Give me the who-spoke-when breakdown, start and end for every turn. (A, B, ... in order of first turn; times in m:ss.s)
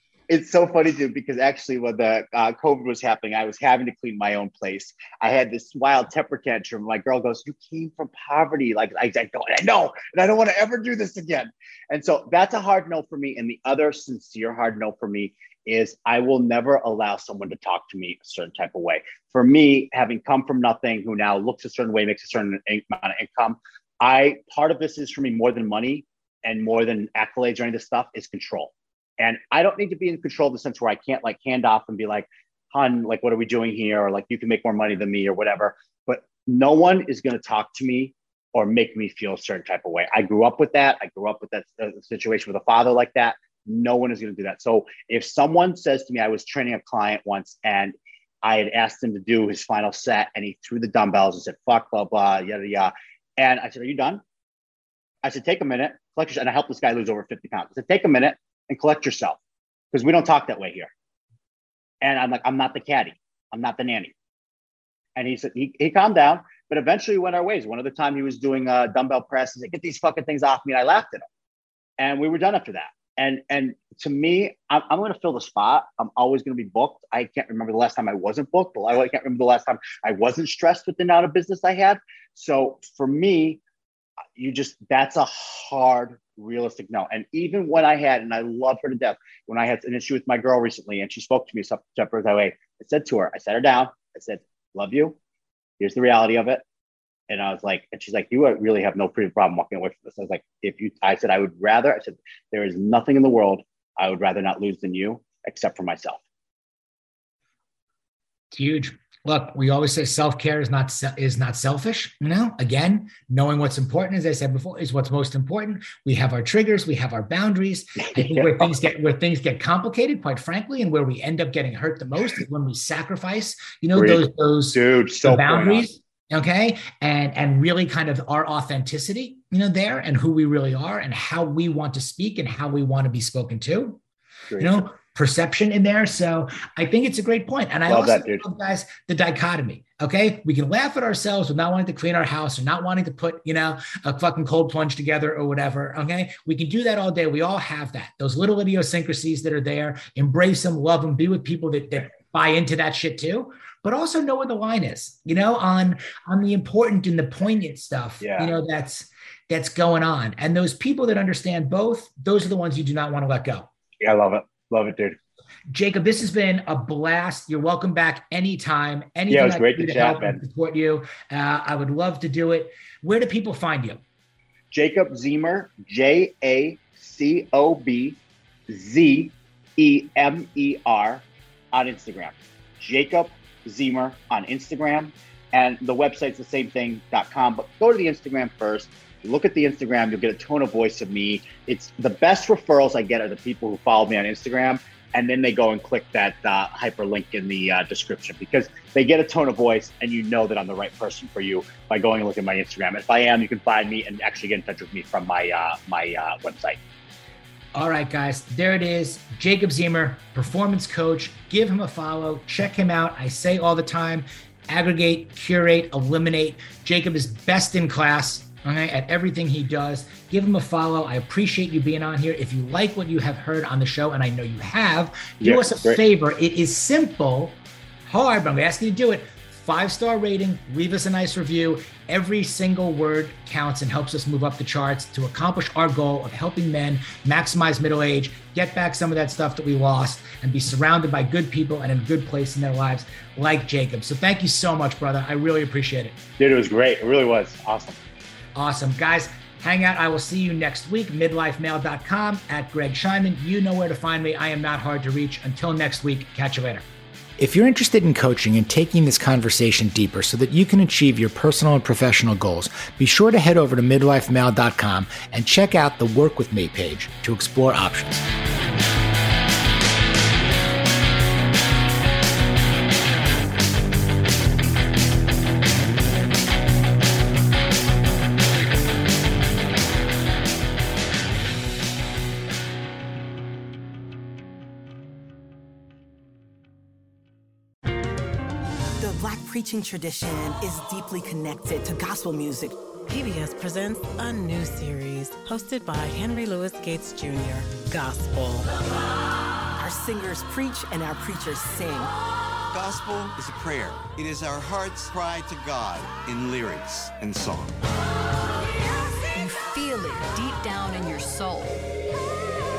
0:00.3-0:54.2 A
0:55.2-0:59.4 A
0:59.9-1:00.9 A
1:02.0-1:04.1 A
1:05.2-1:11.2 A
1:12.0-1:23.6 A
1:24.4-1:35.2 A
1:35.8-1:36.6 A
1:37.3-1:46.2 A
1:48.5-2:14.0 B
1:58.0-1:58.7 A
2:03.9-2:05.9 A
2:14.5-2:14.8 A
2:14.6-2:43.7 B
2:17.9-2:18.4 A
2:38.2-2:38.5 A
2:44.0-2:45.2 A
2:45.7-2:54.0 B
2:49.3-2:50.4 A
2:54.7-2:58.2 A
2:58.7-3:26.8 A
3:27.7-4:06.2 B
3:45.4-3:46.0 A
4:06.4-4:08.0 A
4:08.5-4:16.8 B
4:17.4-4:28.2 B
4:49.0-4:52.8 C
4:53.1-4:58.7 D
4:59.8-5:02.1 C
5:02.7-5:07.8 E
5:09.3-5:11.8 F